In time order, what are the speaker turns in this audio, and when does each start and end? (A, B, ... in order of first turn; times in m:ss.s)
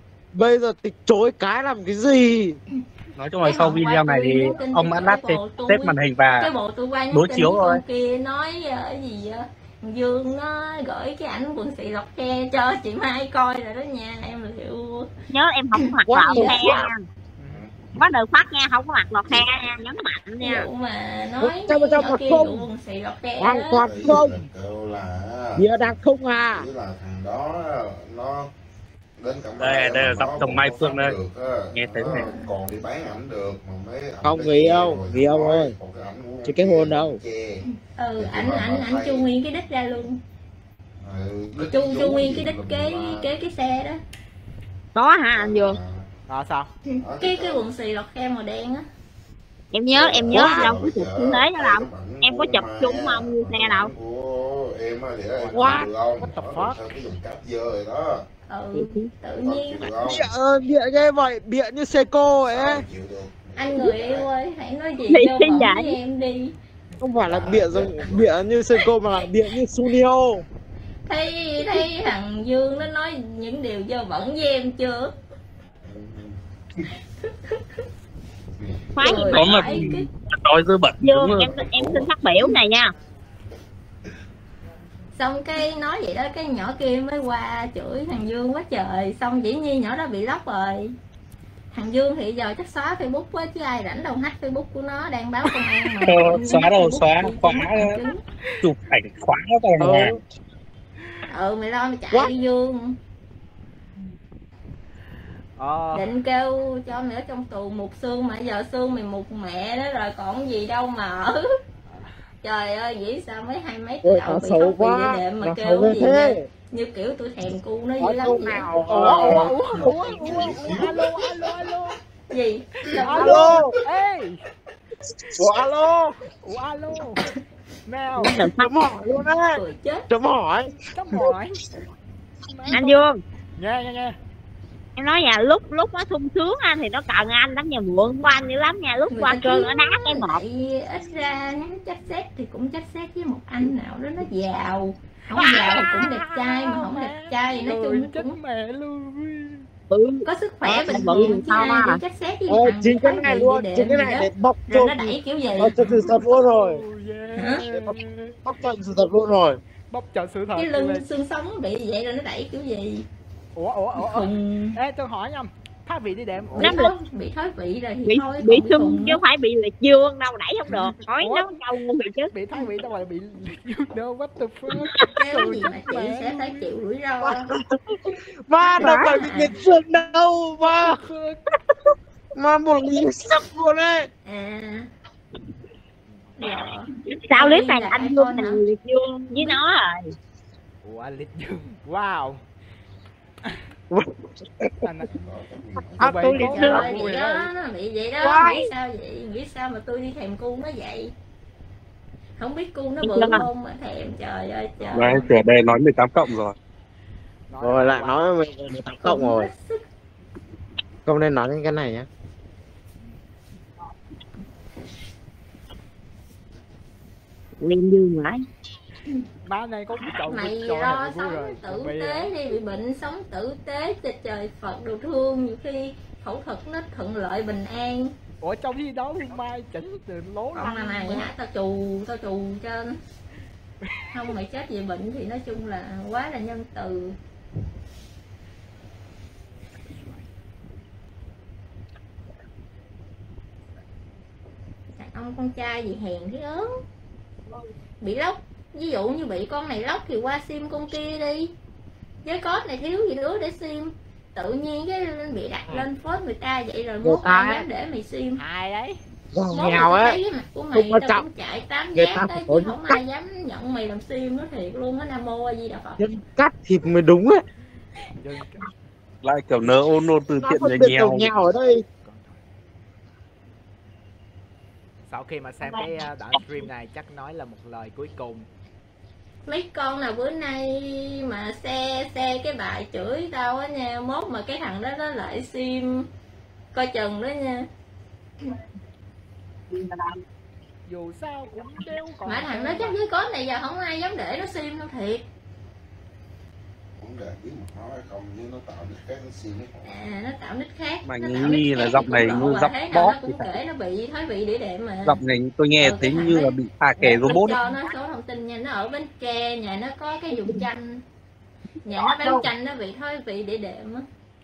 0:00.3-0:02.6 A
0:03.2-0:06.5 B
0:03.4-0:15.1 C
0:07.1-0:07.8 B
0:15.3-0:17.0 D
0:16.0-0:16.9 A
0:16.2-0:16.8 C
0:17.4-0:17.7 E
0:17.5-0:17.7 F
0:17.9-0:20.7 D
0:20.4-0:23.8 C
0:21.4-0:22.7 A
0:23.4-0:24.4 A
0:23.8-0:26.0 F
0:25.6-0:26.6 A
0:26.5-0:28.5 F
0:29.2-0:37.6 F
0:29.6-0:31.1 B
0:31.7-0:32.2 B
0:32.1-0:32.5 C
0:34.2-0:35.7 A
0:36.4-0:37.2 A
0:37.6-0:40.2 C
0:38.2-0:39.3 F
0:41.0-0:43.3 F
0:41.6-0:44.0 C
0:44.9-0:45.8 D
0:45.3-0:46.1 F
0:46.3-0:46.7 E
0:46.9-0:48.9 C
0:47.0-0:47.6 F
0:49.7-0:53.9 D
0:49.9-0:58.2 F
0:50.3-0:50.7 A
0:55.4-0:56.8 E
0:55.5-0:55.9 A
0:58.5-0:59.9 C
0:58.7-0:59.1 D
0:59.4-1:00.3 F
1:00.0-1:02.8 A
1:02.4-1:04.3 F
1:03.6-1:06.5 C
1:05.1-1:06.0 D
1:07.0-1:10.4 A
1:07.2-1:08.4 F
1:11.1-1:15.1 C
1:15.8-1:16.4 F
1:18.6-1:19.1 F
1:18.9-1:19.7 D
1:19.0-1:20.1 C
1:19.1-1:21.5 B
1:21.0-1:22.9 D
1:21.4-1:22.1 F
1:25.1-1:30.9 C
1:31.7-1:38.2 C
1:36.0-1:38.0 B
1:38.6-1:40.2 B
1:39.8-1:40.2 A
1:41.3-1:43.0 C
1:45.6-1:46.1 E
1:45.9-1:51.5 C
1:51.8-1:52.2 E
1:52.4-1:58.7 C
1:54.0-1:56.5 A
1:58.0-1:59.9 A
1:58.8-2:02.0 E
1:59.1-2:01.8 F
2:02.3-2:03.6 C
2:02.9-2:04.4 E
2:03.0-2:03.8 A
2:05.3-2:06.2 A
2:06.3-2:07.3 E
2:07.9-2:08.4 E
2:08.2-2:08.8 D
2:08.5-2:10.7 A
2:09.5-2:10.0 C
2:10.9-2:11.6 E
2:12.4-2:13.0 E
2:12.7-2:13.2 D
2:13.6-2:14.2 E
2:15.0-2:20.4 D
2:19.1-2:28.4 C
2:25.3-2:29.7 E
2:29.9-2:30.2 D
2:30.2-2:35.9 C
2:30.7-2:31.0 A
2:30.8-2:32.0 D
2:32.5-2:36.8 A
2:35.8-2:38.4 E
2:37.3-2:37.6 C
2:37.7-2:39.6 A
2:39.9-2:41.0 E
2:40.5-2:43.0 C
2:43.5-2:46.8 E
2:44.0-2:44.3 C
2:46.6-2:49.2 C
2:46.6-2:46.9 D
2:48.1-2:52.3 D
2:50.7-2:51.5 E
2:52.3-2:56.6 E
2:55.1-2:57.5 C
2:57.2-2:57.6 A
2:58.4-3:01.0 A
2:58.6-2:59.6 C
3:00.8-3:01.4 E
3:02.3-3:04.1 A
3:04.2-3:04.9 C
3:06.0-3:06.3 E
3:06.4-3:08.6 C
3:07.0-3:10.1 D
3:10.8-3:12.4 E
3:13.9-3:14.7 A
3:14.8-3:15.2 E
3:15.0-3:16.4 F
3:16.0-3:17.1 A
3:16.0-3:17.5 E
3:16.4-3:21.1 C
3:18.2-3:18.7 A
3:22.4-3:25.3 C
3:23.0-3:23.4 D
3:24.8-3:25.2 E
3:24.9-3:26.6 B
3:27.5-3:28.2 E
3:27.6-3:29.5 A
3:29.0-3:29.8 C
3:31.0-3:32.1 A
3:37.6-3:38.4 D
3:39.4-3:42.3 E
3:40.3-3:48.1 C
3:48.4-3:51.3 E
3:50.5-3:53.0 C
3:54.1-3:57.2 C
4:05.0-4:06.7 C
4:08.0-4:11.5 C
4:12.2-4:18.4 C
4:17.0-4:17.6 A
4:18.4-4:19.0 E
4:19.3-4:20.2 A
4:19.5-4:26.0 C
4:20.7-4:21.2 A
4:21.9-4:23.0 A
4:26.0-4:27.4 A
4:28.2-4:28.6 E
4:29.2-4:31.3 B
4:30.4-4:31.8 A
4:32.0-4:32.4 E
4:35.1-4:38.5 E
4:39.5-4:46.1 C
4:46.7-4:47.7 C
4:49.7-4:50.2 D
4:50.9-4:53.0 E
4:52.3-4:55.2 C
4:57.0-4:59.9 F
4:59.8-5:05.2 C
5:01.0-5:03.5 B
5:05.0-5:07.6 B
5:05.8-5:11.0 C
5:11.8-5:14.0 C